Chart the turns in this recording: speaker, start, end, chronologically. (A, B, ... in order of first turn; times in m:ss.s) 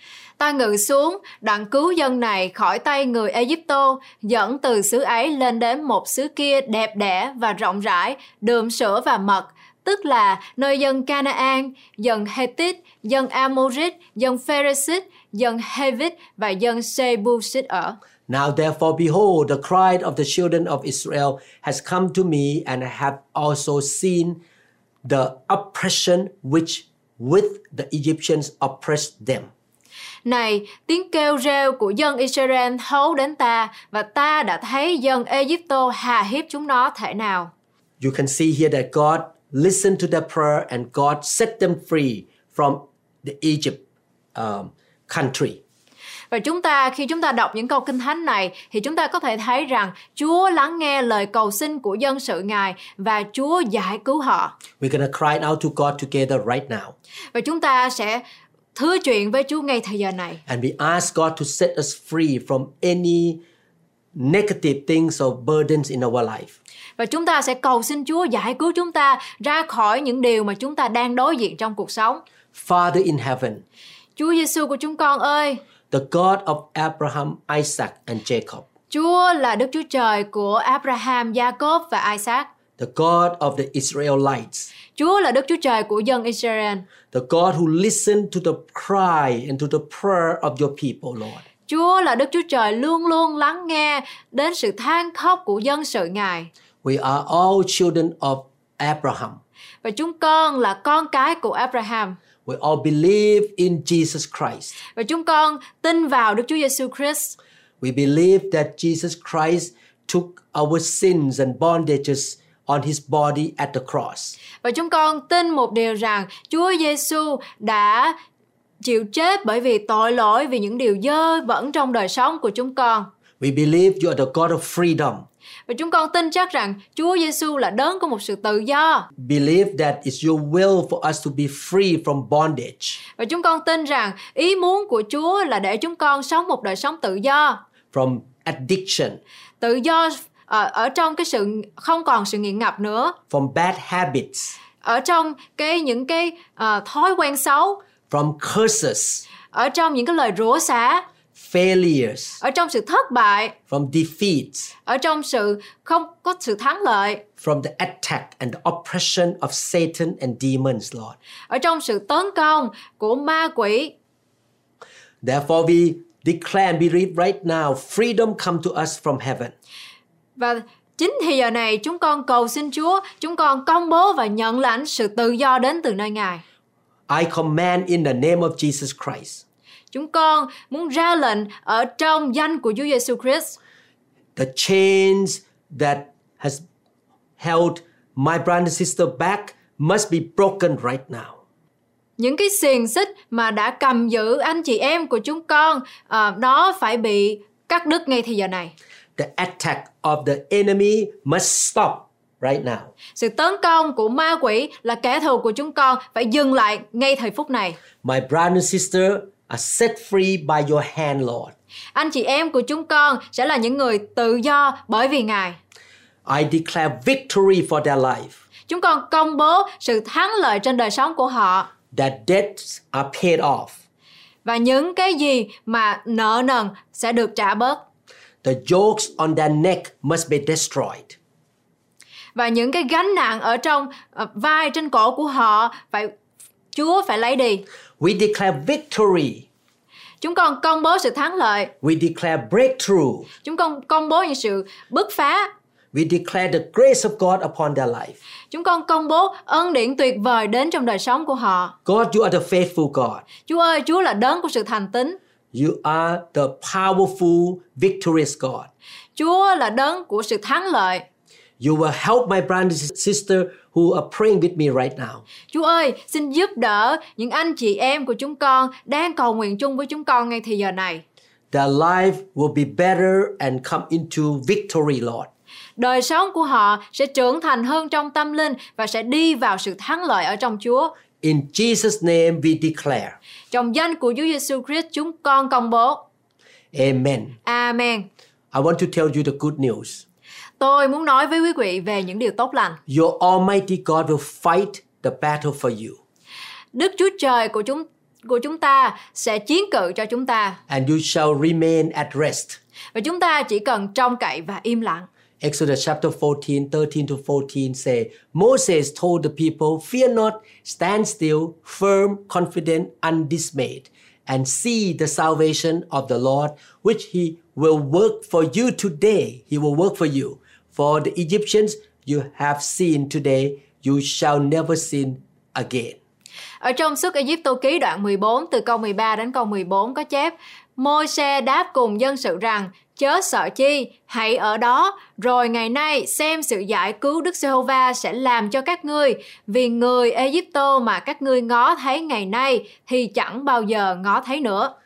0:00.4-0:18.0 A
0:18.3-0:24.4 B
0:25.0-0:29.5 B
0:30.2-0:37.5 A
0:38.0-0:43.8 B
0:44.4-0:45.6 B
0:46.3-0:54.6 A
0:54.8-0:57.0 B
0:57.3-0:58.2 A
0:58.8-1:00.4 A
1:00.5-1:03.4 B
1:04.2-1:06.6 B
1:07.0-1:12.2 A
1:12.5-1:13.6 B
1:14.2-1:15.6 A
1:15.9-1:18.7 B
1:18.9-1:22.5 A
1:22.8-1:24.7 B
1:25.0-1:26.9 A
1:27.1-1:31.4 B
1:31.7-1:36.5 A
1:36.8-1:39.4 B
1:39.8-1:42.2 A
1:42.5-1:44.8 B
1:45.0-1:47.4 A
1:47.8-1:54.4 B
1:54.6-1:58.2 A
1:58.8-2:03.1 A
2:03.4-2:05.3 B
2:05.7-2:09.1 A
2:09.2-2:13.0 B
2:13.2-2:17.6 A
2:17.9-2:19.2 B
2:19.6-2:23.2 A
2:23.3-2:24.6 B
2:24.8-2:27.8 A
2:28.1-2:29.2 B
2:29.5-2:31.0 A
2:31.4-2:32.4 B
2:32.4-2:33.6 A
2:33.7-2:34.7 B
2:34.9-2:37.2 A
2:37.4-2:41.2 B
2:41.5-2:43.9 A
2:45.2-2:49.6 B
2:50.4-2:56.4 A
2:57.1-2:59.4 B
2:59.9-3:03.6 A
3:04.4-3:06.6 B
3:07.4-3:11.4 B
3:12.2-3:18.7 A
3:19.2-3:22.9 B
3:23.2-3:27.8 A
3:28.0-3:31.5 B
3:32.0-3:35.6 A
3:36.2-3:38.4 B
3:38.7-3:41.7 A
3:41.9-3:43.8 B
3:44.4-3:47.8 A
3:48.4-3:51.2 B
3:52.4-3:56.1 A
3:56.7-3:57.6 A
3:58.0-3:59.5 B
4:00.2-4:01.7 A
4:01.8-4:03.3 B
4:03.4-4:05.5 A
4:05.9-4:08.2 B
4:08.5-4:11.7 A
4:11.8-4:13.3 B
4:13.5-4:15.2 A
4:15.5-4:18.7 B
4:19.2-4:21.0 A
4:21.6-4:25.2 B
4:25.5-4:31.0 A
4:31.5-4:35.3 B
4:35.8-4:40.9 A
4:41.2-4:43.2 B
4:43.5-4:46.0 A
4:46.7-4:47.4 B
4:47.4-4:48.1 A
4:48.5-4:50.0 B
4:50.6-4:52.8 A
4:52.9-4:56.0 B
4:56.7-5:00.6 A
5:00.7-5:02.6 B
5:03.0-5:05.1 A
5:05.4-5:26.0 B
5:26.6-5:44.7 A